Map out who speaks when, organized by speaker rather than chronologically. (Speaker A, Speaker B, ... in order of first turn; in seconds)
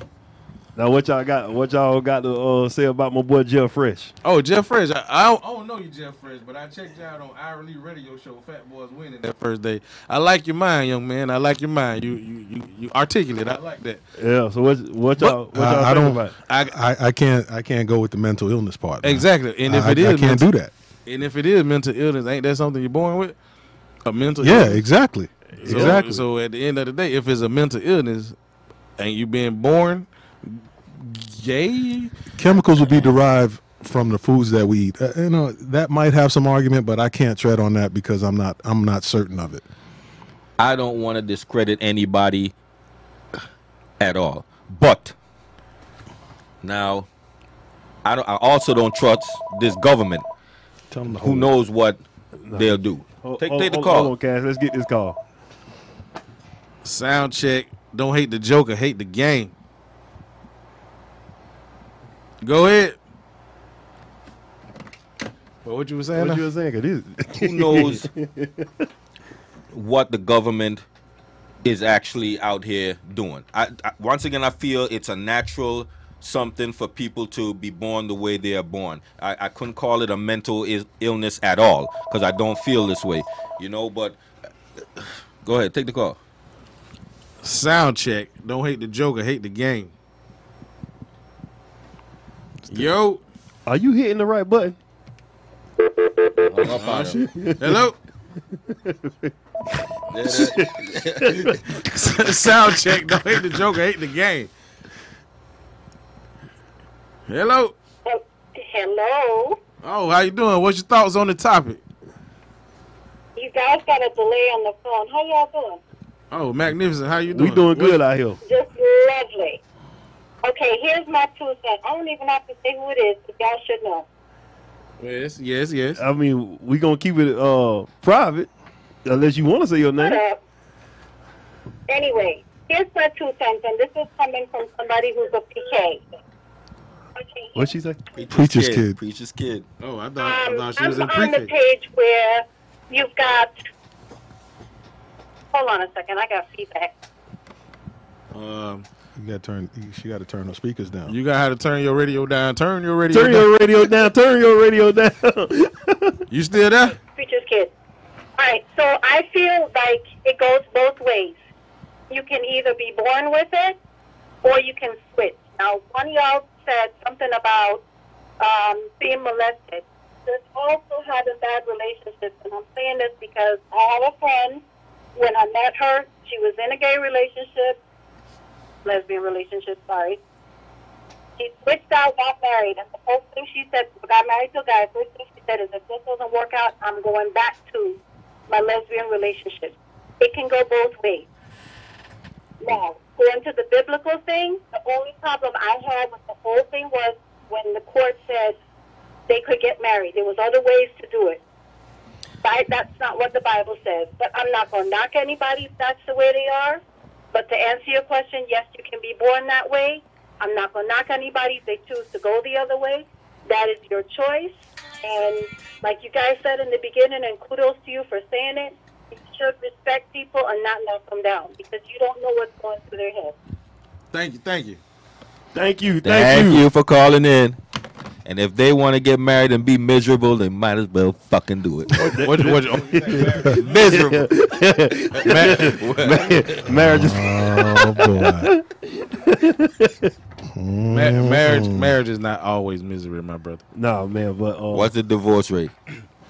Speaker A: 0.8-4.1, 14.2-16.4, 25.6-26.1, 52.5-55.2, 66.1-68.8, 93.7-94.8, 97.2-97.8, 98.7-99.3, 100.2-101.6, 117.3-118.4, 126.0-128.5, 129.1-130.2, 137.6-138.0, 153.1-156.2, 225.6-226.6, 231.9-240.1, 243.8-244.9
Speaker B: 4.2-14.0, 16.5-16.8, 19.0-20.5, 21.1-23.4, 24.1-24.8, 25.6-28.4, 29.0-32.1, 56.8-59.5, 62.4-63.0, 65.7-66.5, 87.4-89.9, 92.7-93.2, 96.7-98.0, 101.7-104.5, 107.3-107.7, 109.8-111.8, 116.3-118.0, 125.0-126.0, 139.8-141.5, 148.3-148.9, 151.1-153.5, 156.3-157.0, 224.1-224.8, 232.0-234.1, 235.2-236.3, 240.9-243.6
Speaker C: 15.5-20.7, 24.4-26.2, 32.4-39.6, 50.9-51.5, 138.3-139.0, 149.2-151.2, 236.7-238.5, 240.5-241.9
Speaker D: 40.6-42.5, 44.0-45.1, 46.6-47.1, 48.0-50.2, 51.2-52.0, 52.5-54.1, 67.3-68.1, 69.7-70.8, 71.6-84.2, 85.0-86.2, 96.4-97.2, 100.1-101.6, 138.2-139.7, 226.0-227.6, 228.2-232.1, 233.6-234.3, 235.5-236.2, 244.7-245.7
Speaker E: 108.0-109.6, 113.4-115.8, 118.4-119.6, 120.4-124.1, 130.0-130.4, 131.9-136.1, 137.2-137.6, 140.2-143.5, 145.5-146.9, 157.2-157.7, 158.4-161.4, 162.1-163.8, 164.4-167.8, 168.4-174.6, 175.2-177.8, 178.8-180.2, 181.4-188.0, 188.5-191.3, 192.6-198.6, 199.3-201.4, 202.4-206.8, 207.3-223.3